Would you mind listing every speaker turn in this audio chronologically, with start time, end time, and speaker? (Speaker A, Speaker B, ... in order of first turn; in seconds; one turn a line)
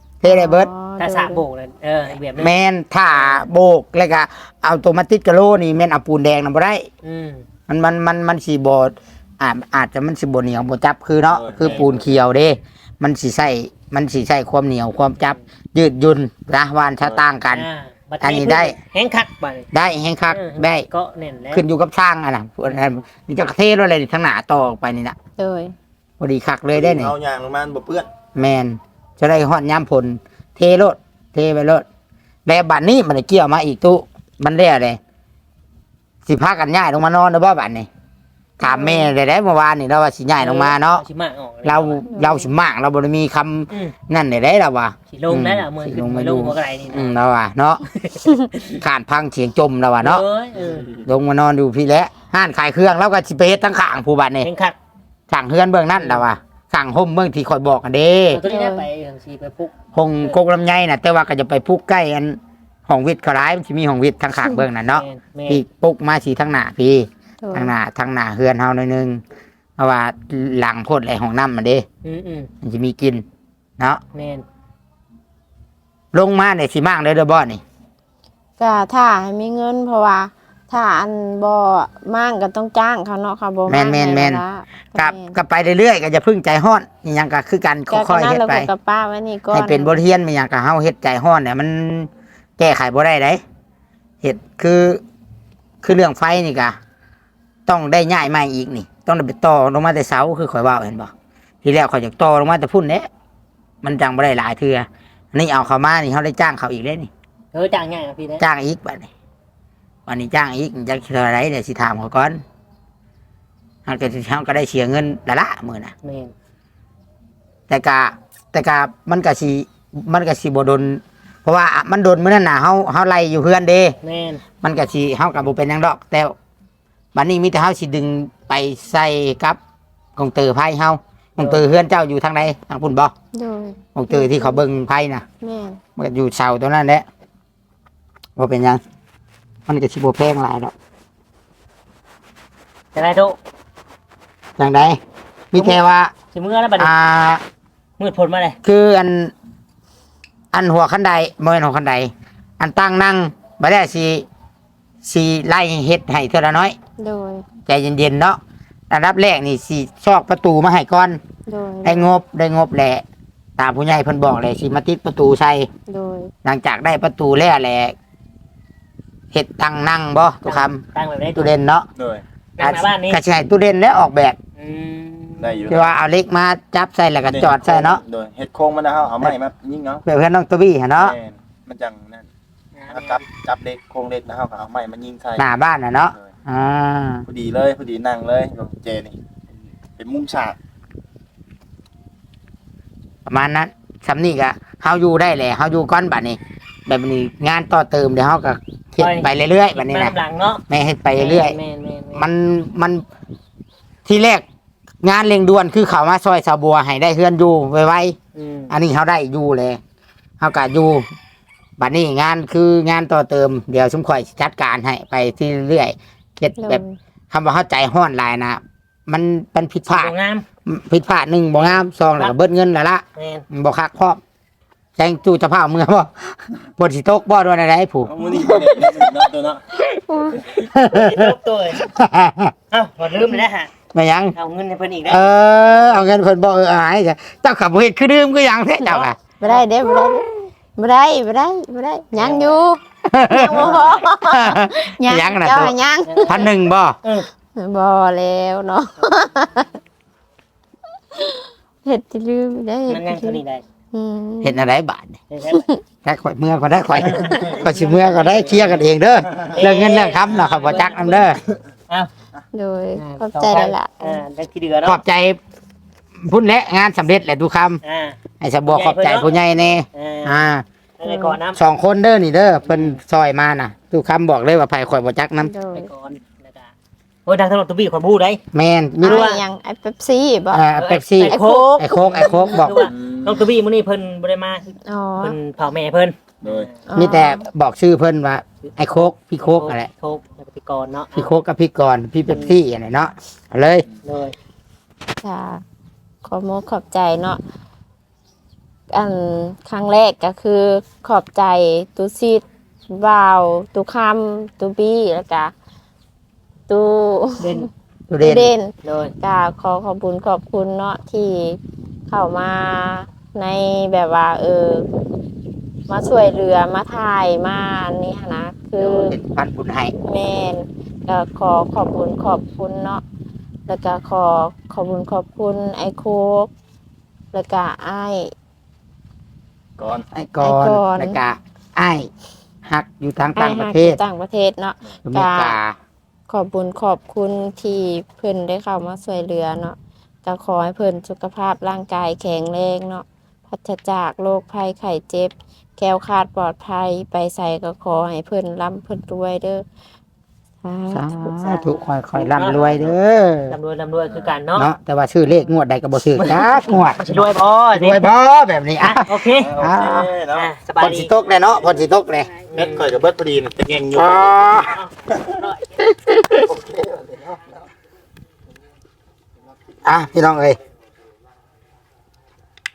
Speaker A: 0.2-0.7
Speaker B: 0.2-1.4
Speaker C: 1.0-2.5
Speaker A: 2.4-6.9
Speaker C: 3.1-3.4
Speaker C: 7.0-7.4
Speaker A: 7.7-17.7
Speaker D: 11.3-12.2
Speaker C: 17.5-19.7
Speaker A: 18.2-18.7
Speaker A: 19.7-20.9
Speaker C: 20.3-21.6
Speaker A: 21.5-25.2
Speaker B: 25.4-25.7
Speaker A: 26.2-27.1
Speaker D: 26.8-28.1
Speaker A: 28.3-31.8
Speaker A: 32.5-35.0
Speaker A: 36.3-37.9
Speaker A: 38.6-41.0
Speaker B: 38.8-39.0
Speaker C: 40.4-42.0
Speaker A: 41.6-47.8
Speaker B: 42.1-42.5
Speaker C: 45.1-47.1
Speaker C: 48.0-48.7
Speaker A: 48.6-50.2
Speaker C: 50.0-50.9
Speaker A: 51.0-54.5
Speaker C: 54.4-54.8
Speaker A: 55.3-58.4
Speaker C: 56.0-56.2
Speaker C: 58.3-59.7
Speaker B: 58.4-58.9
Speaker A: 59.9-69.2
Speaker C: 64.9-65.6
Speaker B: 67.4-67.7
Speaker A: 69.8-71.8
Speaker C: 72.0-72.5
Speaker A: 72.6-73.2
Speaker C: 74.2-74.5
Speaker A: 76.1-77.6
Speaker B: 78.6-85.4
Speaker A: 83.7-84.4
Speaker A: 85.0-88.7
Speaker B: 87.9-90.0
Speaker A: 89.5-93.4
Speaker A: 94.2-95.0
Speaker A: 95.8-96.8
Speaker A: 97.7-101.1
Speaker A: 101.6-103.1
Speaker A: 103.8-107.1
Speaker C: 107.5-108.4
Speaker A: 108.4-109.1
Speaker A: 110.1-112.4
Speaker A: 113.9-115.9
Speaker C: 116.0-116.3
Speaker A: 117.7-124.0
Speaker C: 124.0-124.4
Speaker A: 124.6-126.3
Speaker A: 127.1-129.6
Speaker A: 130.2-133.1
Speaker B: 133.3-134.6
Speaker A: 133.9-135.2
Speaker B: 135.4-135.8
Speaker A: 136.0-137.1
Speaker A: 138.4-138.8
Speaker A: 139.7-140.7
Speaker C: 142.9-143.4
Speaker A: 144.6-145.0
Speaker A: 145.5-146.1
Speaker C: 145.6-145.8
Speaker C: 146.3-146.9
Speaker A: 146.8-147.4
Speaker C: 148.0-148.6
Speaker A: 148.6-149.3
Speaker A: 150.5-154.2
Speaker A: 155.0-156.8
Speaker B: 157.0-157.4
Speaker A: 157.7-158.4
Speaker A: 158.9-161.2
Speaker B: 161.5-162.1
Speaker A: 161.8-163.0
Speaker A: 163.6-165.7
Speaker B: 165.9-166.3
Speaker A: 166.4-167.9
Speaker A: 169.3-170.8
Speaker C: 170.5-171.5
Speaker A: 171.4-171.9
Speaker D: 172.0-172.2
Speaker C: 172.6-173.2
Speaker A: 172.6-174.4
Speaker C: 174.6-175.6
Speaker D: 175.4-175.9
Speaker A: 175.7-178.0
Speaker D: 177.3-180.0
Speaker A: 180.1-181.2
Speaker D: 181.0-182.3
Speaker C: 182.8-183.2
Speaker D: 182.9-185.5
Speaker A: 185.4-187.2
Speaker D: 187.3-189.2
Speaker D: 190.0-190.6
Speaker A: 193.3-200.1
Speaker C: 199.0-200.6
Speaker A: 200.7-201.6
Speaker C: 201.2-202.3
Speaker A: 202.1-203.0
Speaker A: 204.1-204.4
Speaker A: 205.0-208.2
Speaker C: 208.3-208.7
Speaker A: 208.7-209.8
Speaker A: 210.4-211.1
Speaker A: 211.8-220.1
Speaker B: 216.6-217.0
Speaker C: 219.9-220.4
Speaker A: 220.7-224.2
Speaker C: 221.6-222.3
Speaker C: 223.2-223.5
Speaker A: 225.0-228.1
Speaker D: 228.1-229.6
Speaker B: 228.2-229.0
Speaker B: 229.8-230.5
Speaker C: 230.6-231.9
Speaker A: 230.7-232.5
Speaker C: 232.7-233.7
Speaker A: 233.9-234.3
Speaker C: 234.4-236.0
Speaker A: 235.1-239.2
Speaker C: 238.9-239.6
Speaker B: 239.4-246.5
Speaker C: 242.2-242.6
Speaker A: 243.1-245.8
Speaker C: 243.6-244.0
Speaker C: 246.1-246.4
Speaker A: 246.3-247.0
Speaker B: 247.6-249.7
Speaker B: 251.2-253.4
Speaker C: 252.9-253.6
Speaker B: 253.9-254.6
Speaker A: 254.4-255.2
Speaker C: 255.3-255.7
Speaker B: 255.5-255.8
Speaker A: 256.0-261.4
Speaker C: 257.0-258.8
Speaker C: 259.5-262.1
Speaker B: 262.5-264.2
Speaker C: 263.0-265.0
Speaker A: 264.9-265.4
Speaker A: 266.2-267.8
Speaker C: 267.8-269.3
Speaker A: 268.4-270.6
Speaker C: 269.9-270.4
Speaker C: 271.0-271.6
Speaker B: 271.1-271.4
Speaker A: 271.6-275.5
Speaker C: 272.7-273.0
Speaker B: 275.4-275.9
Speaker C: 275.7-276.7
Speaker C: 277.3-278.4
Speaker A: 278.5-279.3
Speaker B: 279.0-280.6
Speaker C: 279.0-279.4
Speaker A: 280.5-282.9
Speaker C: 280.8-284.7
Speaker B: 281.3-281.7
Speaker D: 282.9-283.4
Speaker B: 284.9-285.4
Speaker C: 285.2-286.7
Speaker D: 286.4-286.7
Speaker B: 286.9-287.4
Speaker A: 286.9-289.9
Speaker C: 288.7-291.3
Speaker A: 291.1-293.9
Speaker C: 292.3-292.6
Speaker C: 294.1-294.4
Speaker B: 295.2-295.6
Speaker B: 296.2-297.4
Speaker B: 298.9-305.5
Speaker B: 306.7-307.7
Speaker C: 307.4-307.7
Speaker A: 308.1-308.5
Speaker B: 308.2-314.9
Speaker C: 308.8-309.1
Speaker B: 315.9-319.2
Speaker A: 318.8-319.9
Speaker B: 320.0-323.0
Speaker B: 323.7-326.5
Speaker B: 327.3-328.3
Speaker D: 329.8-330.1
Speaker A: 330.1-332.1
Speaker B: 330.4-331.2
Speaker A: 332.7-334.0
Speaker B: 333.4-335.6
Speaker A: 335.1-335.8
Speaker B: 336.3-349.6
Speaker B: 350.6-351.4
Speaker A: 350.9-353.6
Speaker C: 351.4-352.7
Speaker C: 353.5-354.7
Speaker A: 354.6-357.0
Speaker C: 357.0-358.0
Speaker A: 357.7-360.1
Speaker C: 358.8-359.7
Speaker D: 359.5-360.5
Speaker C: 360.3-361.1
Speaker A: 360.8-362.3
Speaker C: 362.5-362.9
Speaker D: 362.5-364.6
Speaker A: 363.9-364.8
Speaker C: 364.6-365.8
Speaker A: 365.8-366.6
Speaker D: 366.5-367.4
Speaker A: 369.9-370.6